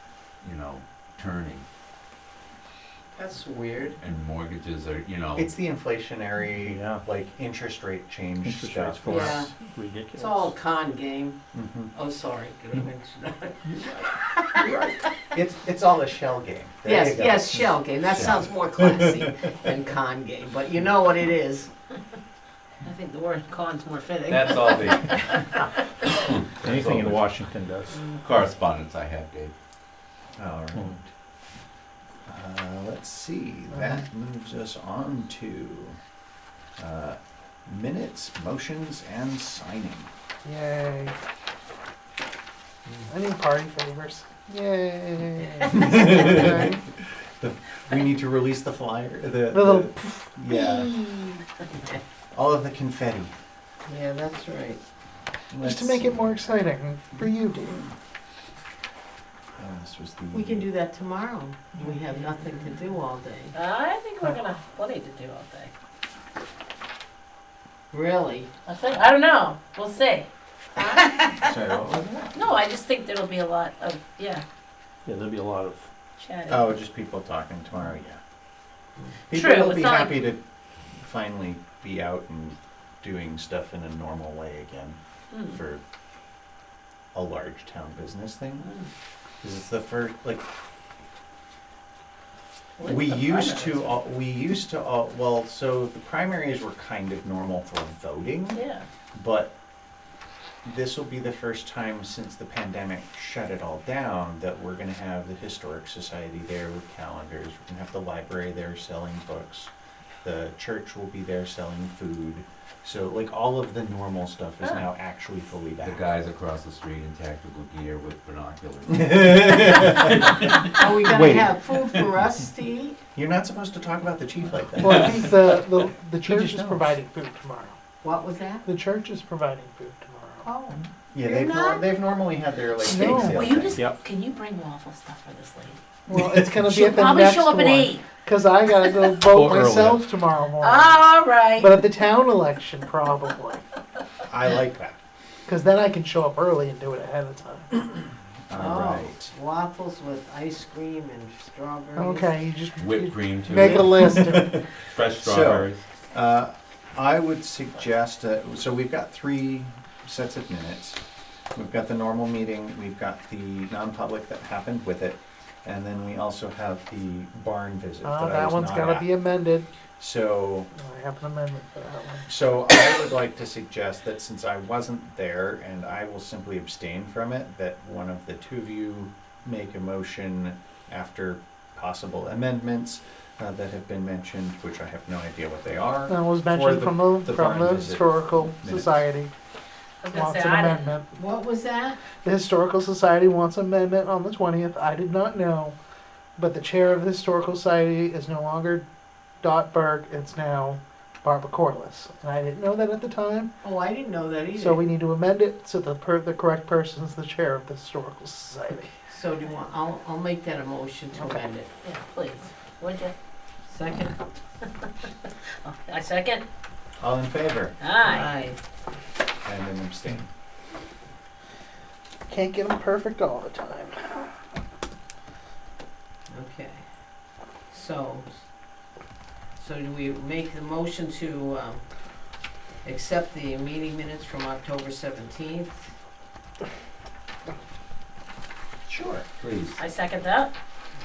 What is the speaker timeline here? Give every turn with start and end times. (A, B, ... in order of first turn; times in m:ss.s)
0:00.4-0:01.6 A
0:03.1-0:04.0 B
0:04.0-0:05.5 A
0:05.4-0:09.4 C
0:06.6-0:07.0 D
0:08.4-0:10.6 D
0:09.1-0:09.5 B
0:10.1-0:11.4 B
0:11.5-0:11.9 C
0:11.9-0:14.7 B
0:14.6-0:18.2 C
0:16.8-0:21.7 B
0:18.1-0:18.4 A
0:18.8-0:19.3 C
0:22.8-0:24.2 E
0:24.2-0:25.0 B
0:24.3-0:25.7 A
0:26.3-0:27.4 A
0:26.6-0:28.1 D
0:28.1-0:29.5 A
0:30.4-0:31.0 C
0:30.7-0:31.0 D
0:32.3-0:36.0 C
0:33.7-0:34.0 F
0:36.8-0:40.1 C
0:40.4-0:41.2 F
0:43.1-0:46.7 F
0:45.7-0:46.8 C
0:47.4-0:51.0 C
0:49.5-0:50.3 F
0:52.3-0:53.3 C
0:53.8-0:54.8 B
0:55.5-0:56.4 C
0:55.6-0:57.8 F
0:59.6-1:00.7 C
1:00.3-1:03.5 B
1:03.5-1:05.7 E
1:07.9-1:08.5 B
1:08.7-1:11.0 E
1:11.4-1:12.5 C
1:12.3-1:14.4 E
1:15.0-1:15.9 D
1:16.2-1:16.7 E
1:16.5-1:18.2 C
1:19.3-1:20.4 C
1:19.3-1:20.2 E
1:21.0-1:25.8 C
1:25.3-1:25.6 E
1:27.1-1:28.7 C
1:29.4-1:30.4 C
1:32.8-1:33.9 E
1:32.8-1:38.6 C
1:38.5-1:38.8 E
1:39.1-1:39.5 C
1:40.6-1:49.7 C
1:50.2-1:56.0 C
1:55.8-2:00.6 A
1:58.9-2:00.4 C
2:00.7-2:03.0 B
2:01.1-2:01.5 C
2:03.1-2:05.7 C
2:04.8-2:07.8 F
2:06.2-2:06.9 C
2:08.0-2:08.6 B
2:08.6-2:10.5 F
2:10.4-2:11.9 B
2:11.1-2:13.9 C
2:12.9-2:13.4 F
2:12.9-2:15.8 E
2:16.1-2:23.6 F
2:16.7-2:18.1 E
2:19.2-2:20.0 A
2:20.6-2:21.8 E
2:24.3-2:25.0 C
2:25.5-2:27.7 F
2:28.5-2:29.3 C
2:28.5-2:32.3 B
2:32.0-2:34.6 F
2:32.8-2:34.2 A
2:33.6-2:34.6 C
2:34.9-2:35.8 A
2:35.2-2:41.0 C
2:41.6-2:49.1 C
2:48.0-2:49.7 F
2:50.0-2:50.7 C
2:50.8-2:52.3 F
2:52.2-3:09.0 C
3:06.1-3:09.3 F
3:10.0-3:10.9 E
3:10.1-3:11.1 F
3:11.2-3:12.0 B
3:12.2-3:15.8 F
3:16.4-3:18.8 F
3:19.4-3:23.5 F
3:23.6-3:24.9 B
3:24.6-3:28.9 F
3:29.1-3:31.7 B
3:31.8-3:33.1 E
3:33.7-3:34.2 B
3:35.6-3:36.4 E
3:37.0-3:37.8 C
3:37.8-3:38.3 E
3:38.0-3:38.6 B
3:39.4-3:40.3 C
3:42.3-3:44.3 F
3:46.3-3:48.5 B
3:49.6-3:51.8 B
3:52.8-3:55.8 B
3:58.8-3:59.2 C
3:59.4-3:59.8 A
3:59.8-4:00.5 E